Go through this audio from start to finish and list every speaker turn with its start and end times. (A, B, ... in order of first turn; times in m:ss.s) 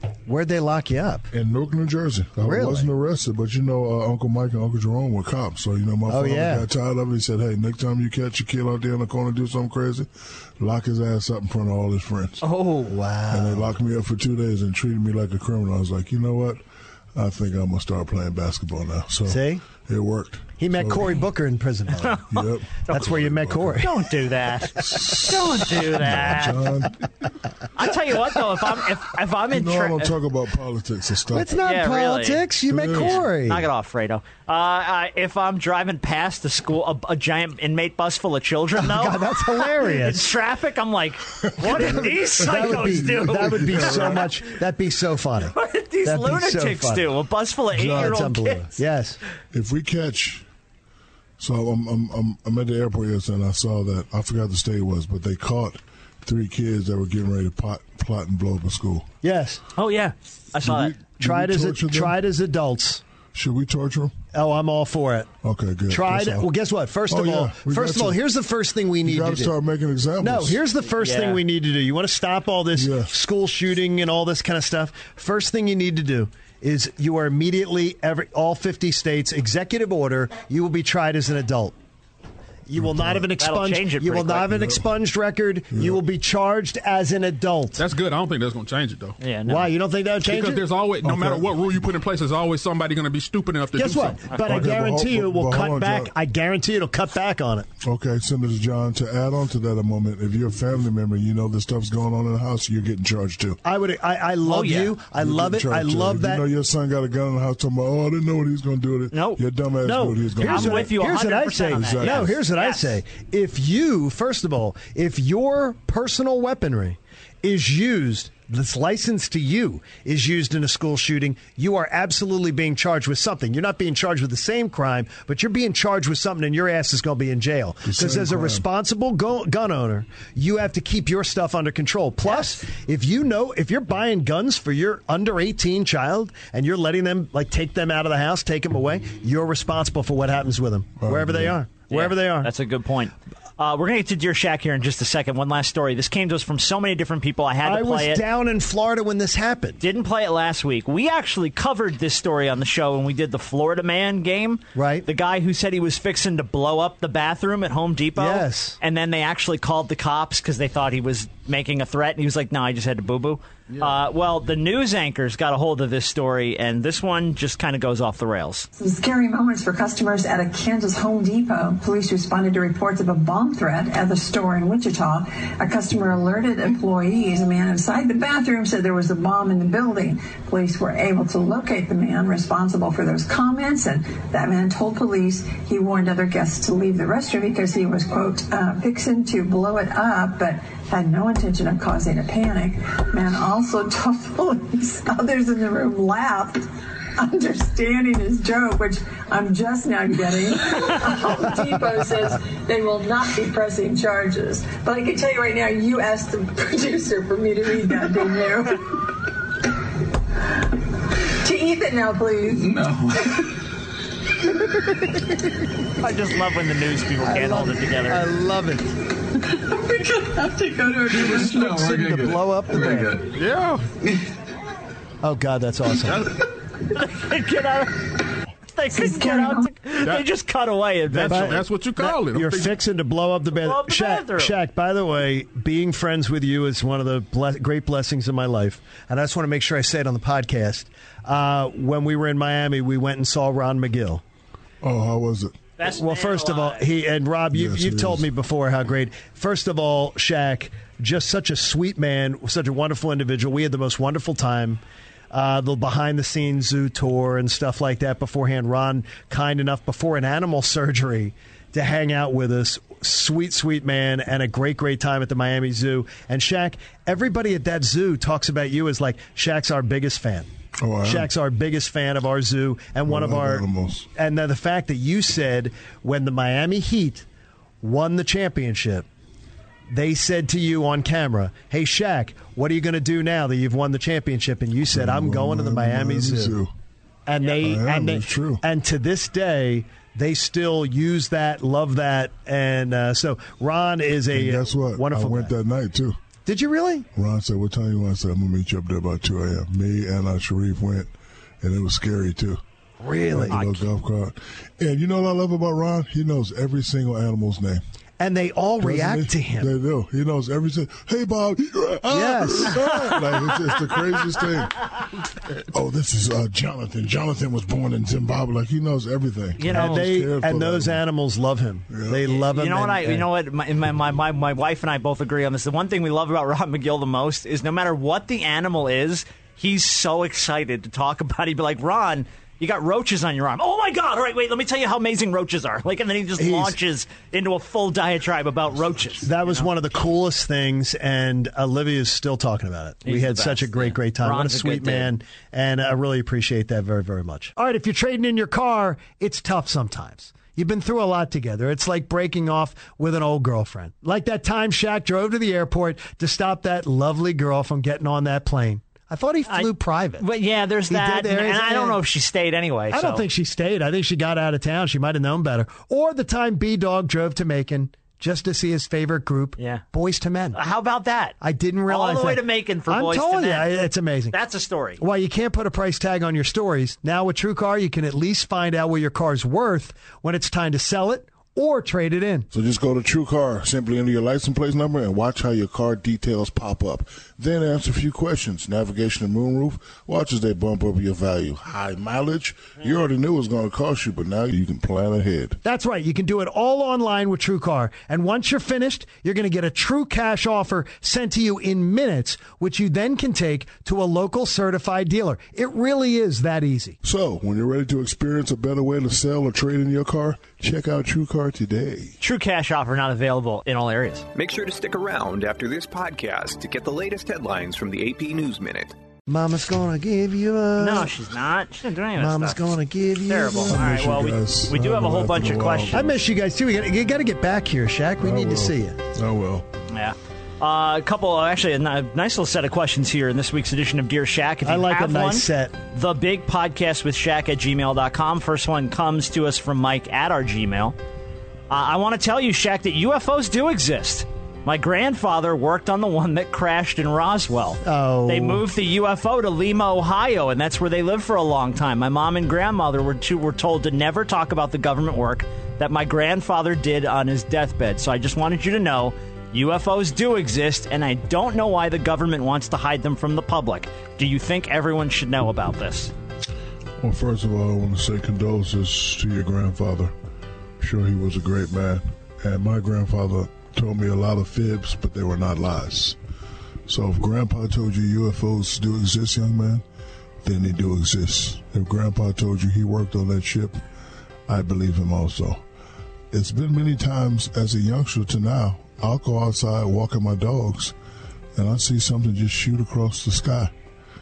0:00.2-0:01.3 A
0:01.3-0:12.4 B
0:02.4-0:02.9 A
0:06.1-0:06.6 A
0:12.4-0:12.9 C
0:12.9-0:13.7 A
0:13.3-0:16.6 B
0:17.1-0:21.2 B
0:19.3-0:19.6 A
0:20.6-0:22.2 A
0:22.3-0:23.9 B
0:22.9-0:23.9 A
0:23.8-0:26.7 C
0:24.8-0:27.0 B
0:27.8-0:30.1 C
0:29.5-0:31.6 B
0:31.3-0:33.7 A
0:31.6-0:44.3 C
0:32.7-0:33.2 B
0:38.8-0:40.3 A
0:41.4-0:44.3 B
0:41.6-0:47.1 A
0:45.5-0:48.8 C
0:47.7-0:48.2 B
0:47.8-0:49.2 A
0:49.5-0:50.4 B
0:51.4-0:59.1 B
0:59.2-0:59.6 A
0:59.8-1:01.0 C
1:00.6-1:02.2 B
1:01.2-1:03.0 A
1:03.3-1:04.1 B
1:04.3-1:05.3 A
1:05.4-1:06.5 B
1:05.9-1:09.5 A
1:07.1-1:08.2 B
1:09.0-1:10.6 B
1:10.2-1:21.8 A
1:10.9-1:11.4 C
1:12.7-1:13.1 B
1:22.7-1:27.8 A
1:22.8-1:23.3 B
1:23.4-1:24.6 C
1:24.5-1:24.9 B
1:25.7-1:26.0 B
1:27.8-1:29.2 D
1:29.2-1:29.7 C
1:29.5-1:30.6 A
1:30.2-1:34.2 D
1:31.0-1:31.6 B
1:33.8-1:37.7 A
1:34.3-1:34.7 C
1:34.4-1:36.1 B
1:37.8-1:43.6 B
1:43.6-1:46.4 A
1:44.4-1:45.0 C
1:45.1-1:51.0 B
1:49.1-1:49.4 C
1:49.8-2:22.5 A
1:50.4-1:52.9 C
1:51.7-1:52.4 B
2:07.8-2:08.6 B
2:12.2-2:12.6 C
2:21.0-2:21.6 B
2:21.9-2:28.2 C
2:27.6-2:29.8 A
2:29.8-2:48.7 C
2:34.7-2:35.1 A
2:38.2-2:38.8 A
2:48.8-3:29.0 E
3:31.3-3:33.5 E
3:36.0-3:38.2 C
3:37.2-3:38.9 A
3:39.6-3:41.5 E
3:41.1-3:43.2 A
3:43.3-3:43.9 D
3:45.2-3:46.3 A
3:46.0-3:46.3 D
3:46.9-3:48.0 C
3:48.7-3:51.6 C
3:48.9-3:49.7 E
3:51.1-3:52.8 D
3:51.2-4:04.2 A
3:53.5-3:54.6 C
4:04.8-4:05.6 B
4:05.8-4:06.9 C
4:05.8-4:30.5 A
4:07.5-4:08.3 B
4:30.8-4:31.3 B
4:31.0-4:37.2 A
4:33.0-4:34.1 B
4:37.8-4:39.0 A
4:39.9-4:46.6 A
4:44.8-4:46.7 B
4:47.2-4:55.5 A
4:47.5-4:48.6 B
4:54.3-4:56.2 B
4:56.4-4:57.1 A
4:57.1-5:02.6 B
5:03.0-5:03.8 A
5:03.3-5:07.8 B
5:08.2-5:09.7 A
5:08.8-5:14.8 B
5:12.1-5:12.8 A
5:12.7-5:13.1 C
5:15.5-5:21.0 B
5:19.6-5:20.1 C
5:19.7-5:23.3 A
5:21.9-5:22.2 B
5:22.3-5:39.7 C
5:36.4-5:36.8 A
5:39.2-6:00.3 A
5:43.0-5:45.1 C
5:59.5-6:03.2 C
6:00.9-6:02.0 A
6:02.9-6:10.6 A
6:09.6-6:09.8 C
6:10.5-6:15.0 C
6:11.4-6:14.4 A
6:15.0-6:22.5 A
6:22.5-6:35.6 B
6:35.6-6:47.0 A
6:47.0-6:52.2 B
6:52.2-6:54.2 C
6:54.3-6:58.9 F
6:59.3-7:01.1 A
7:00.8-7:02.7 C
7:02.2-7:03.8 A
7:03.3-7:06.1 C
7:03.7-7:06.2 B
7:05.9-7:09.0 A
7:08.2-7:09.6 B
7:09.9-7:20.9 C
7:14.6-7:15.8 A
7:21.7-7:46.1 C
7:27.8-7:28.6 A
7:47.0-7:50.1 B
7:50.8-7:56.2 B
7:56.9-7:59.8 B
8:00.4-8:03.8 B
8:04.5-8:05.6 B
8:06.3-8:10.9 B
8:11.5-8:13.7 B